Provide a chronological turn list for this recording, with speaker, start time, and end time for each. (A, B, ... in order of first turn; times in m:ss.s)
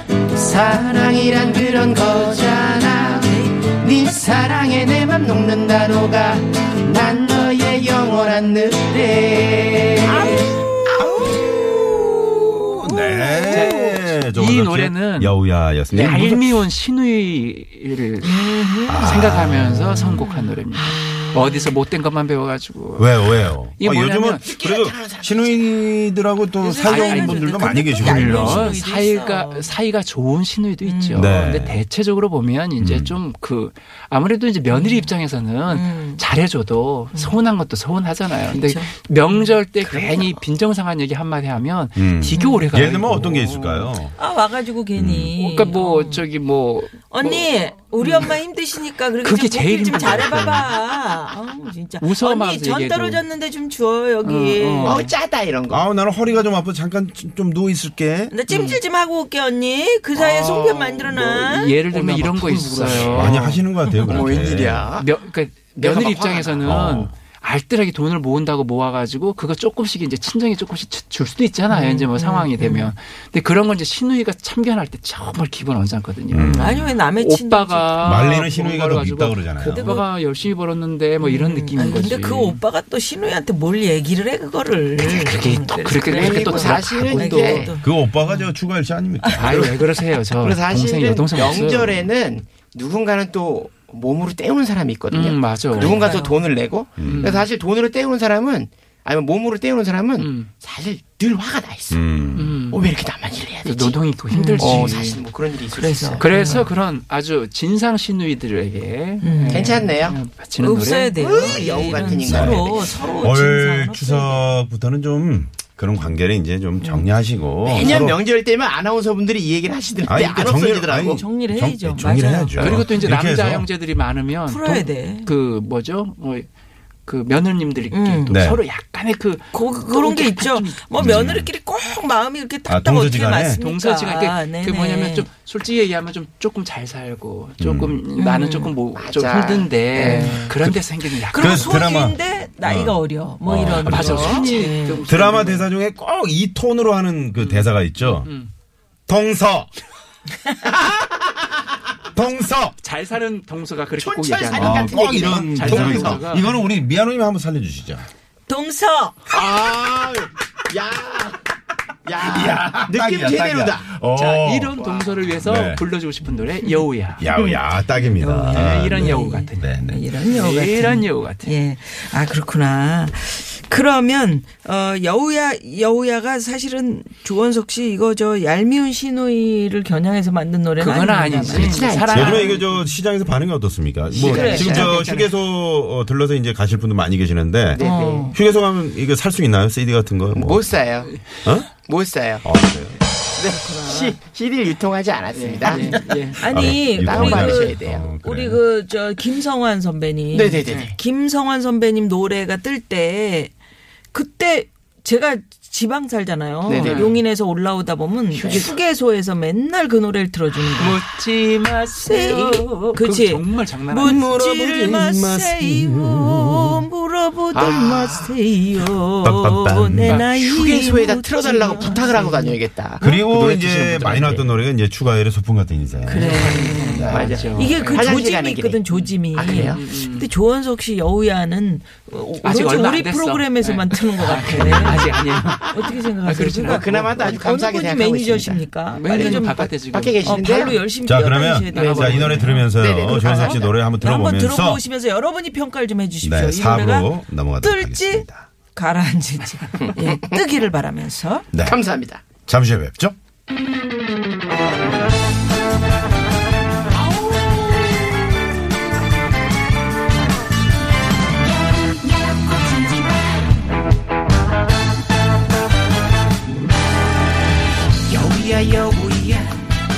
0:00.3-0:10.4 A
0:03.2-0:03.6 B
0:10.1-0:11.6 B
0:10.1-0:16.4 C
0:12.1-0:13.8 B
0:13.4-0:24.4 D
0:15.9-0:16.3 A
0:18.2-0:19.3 B
0:18.9-0:20.2 C
0:20.2-0:21.7 B
0:23.0-0:28.8 C
0:24.4-0:25.7 A
0:26.6-0:29.8 B
0:26.8-0:44.0 D
0:30.8-0:31.4 B
0:31.1-0:31.8 C
0:32.8-0:33.2 C
0:34.7-0:35.1 B
0:35.7-0:36.2 B
0:38.4-0:39.5 B
0:39.8-0:40.4 A
0:42.0-0:44.2 C
0:42.4-0:42.7 B
0:44.1-0:46.2 B
0:45.0-0:45.3 C
0:45.4-0:48.4 D
0:47.1-0:55.0 B
0:49.2-0:50.7 D
0:50.0-0:50.6 C
0:52.0-0:53.2 D
0:54.2-0:55.1 D
0:54.8-0:55.8 A
0:55.7-0:58.4 C
0:58.3-1:01.8 B
0:58.5-0:58.8 D
1:00.2-1:01.0 A
1:00.4-1:04.2 D
1:01.9-1:03.4 A
1:02.7-1:04.9 C
1:04.0-1:05.1 A
1:05.0-1:22.6 D
1:05.8-1:06.7 A
1:06.6-1:07.1 C
1:11.7-1:12.9 B
1:16.3-1:17.0 C
1:16.4-1:18.3 B
1:18.0-1:20.0 C
1:19.7-1:20.1 B
1:21.2-1:27.9 B
1:25.0-1:27.7 D
1:26.1-1:27.7 A
1:27.8-1:29.7 C
1:29.3-1:32.1 D
1:29.4-1:29.7 A
1:30.4-1:42.0 A
1:35.1-1:36.1 D
1:35.7-1:36.5 B
1:37.0-1:37.3 C
1:37.0-1:37.5 D
1:40.2-1:40.5 D
1:41.9-1:42.6 C
1:42.4-1:42.8 D
1:42.7-1:44.0 A
1:43.6-1:45.2 D
1:44.3-1:44.9 B
1:44.6-1:46.6 A
1:45.7-1:46.7 B
1:46.2-1:51.3 D
1:49.2-1:49.8 B
1:49.5-1:50.2 A
1:50.6-1:54.4 B
1:51.2-1:53.2 A
1:52.1-1:58.2 C
1:56.8-1:57.1 B
1:57.6-2:01.2 A
1:57.7-1:58.0 B
2:00.1-2:03.7 C
2:01.0-2:02.8 B
2:02.6-2:06.5 D
2:04.5-2:05.3 B
2:07.1-2:11.3 D
2:07.9-2:08.4 B
2:08.3-2:08.6 C
2:09.5-2:15.3 B
2:11.0-2:11.5 C
2:12.7-2:13.6 C
2:13.6-2:21.8 D
2:17.6-2:18.0 C
2:18.2-2:18.7 B
2:19.0-2:19.8 A
2:20.0-2:20.5 B
2:20.1-2:24.5 C
2:21.3-2:25.0 B
2:23.8-2:25.7 D
2:25.1-2:28.3 C
2:27.4-2:28.5 D
2:29.1-2:29.7 C
2:30.7-2:31.5 A
2:32.1-2:32.8 C
2:32.8-2:36.5 D
2:34.0-2:36.4 A
2:34.6-2:38.1 C
2:38.5-2:39.3 B
2:39.3-2:41.4 A
2:42.1-2:43.9 A
2:42.2-2:44.8 C
2:44.1-2:47.4 D
2:44.8-2:45.1 A
2:45.4-2:45.8 C
2:47.2-2:50.0 C
2:48.2-3:01.9 B
2:48.3-2:51.5 D
3:00.8-3:02.9 D
3:01.5-3:02.6 A
3:01.5-3:10.7 C
3:04.1-3:05.1 A
3:04.2-3:05.3 D
3:04.2-3:04.9 B
3:07.7-3:08.3 A
3:07.8-3:08.4 B
3:10.3-3:11.1 A
3:11.4-3:11.7 C
3:11.8-3:12.4 A
3:12.4-3:13.0 C
3:13.4-3:18.1 A
3:13.4-3:14.2 B
3:15.3-3:16.4 D
3:15.7-3:23.5 B
3:16.5-3:18.6 C
3:20.3-3:21.0 A
3:24.1-3:31.0 B
3:26.7-3:27.2 A
3:26.8-3:27.2 D
3:28.3-3:28.8 A
3:30.8-3:34.2 D
3:32.0-3:42.6 B
3:34.0-3:36.8 C
3:37.5-3:38.4 A
3:39.2-3:40.2 C
3:40.2-3:44.5 A
3:43.0-3:47.3 C
3:46.0-3:59.7 B
3:46.1-3:48.1 D
3:47.0-3:49.8 A
3:48.9-3:50.3 D
3:52.4-3:57.1 D
3:54.5-3:55.2 C
3:56.7-4:00.8 A
3:58.9-4:00.8 D
4:00.2-4:11.5 B
4:01.0-4:04.8 C
4:01.7-4:02.7 D
4:01.7-4:02.2 A
4:02.8-4:03.7 A
4:06.2-4:08.4 C
4:11.5-4:11.8 C
4:11.6-4:12.2 A
4:12.5-4:13.2 C
4:28.1-4:29.6 A